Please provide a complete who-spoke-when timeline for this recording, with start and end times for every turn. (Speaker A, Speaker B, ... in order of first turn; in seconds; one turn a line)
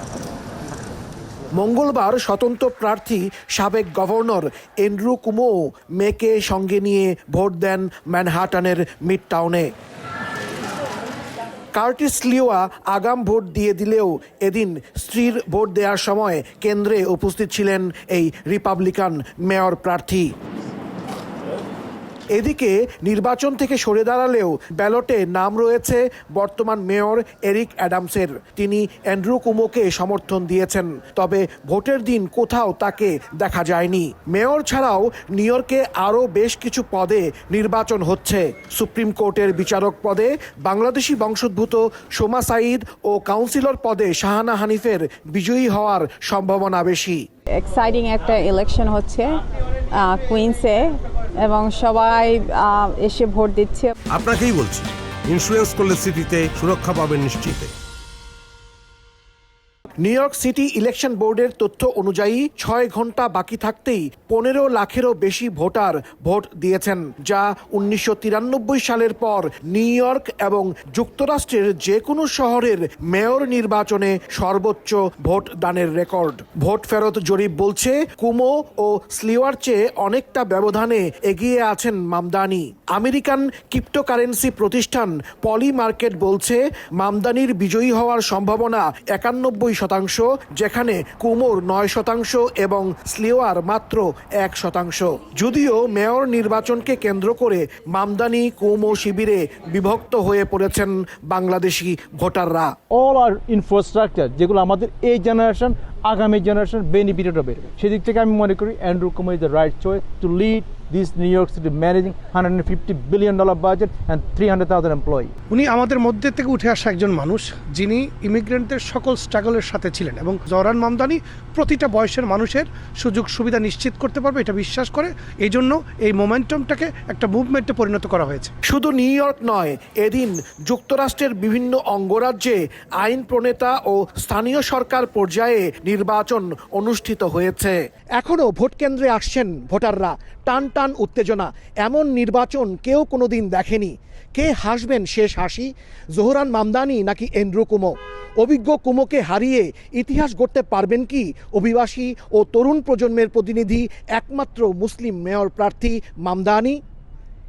Speaker A: 1.6-9.7
Speaker A: 11.8-20.3
Speaker A: 22.3-47.2
Speaker B: 47.6-49.3
Speaker B: 50.0-50.9
Speaker B: 51.4-53.9
Speaker C: 54.1-57.7
Speaker A: 60.0-102.8
Speaker D: 102.9-115.3
Speaker E: 115.5-128.5
Speaker A: 128.7-156.8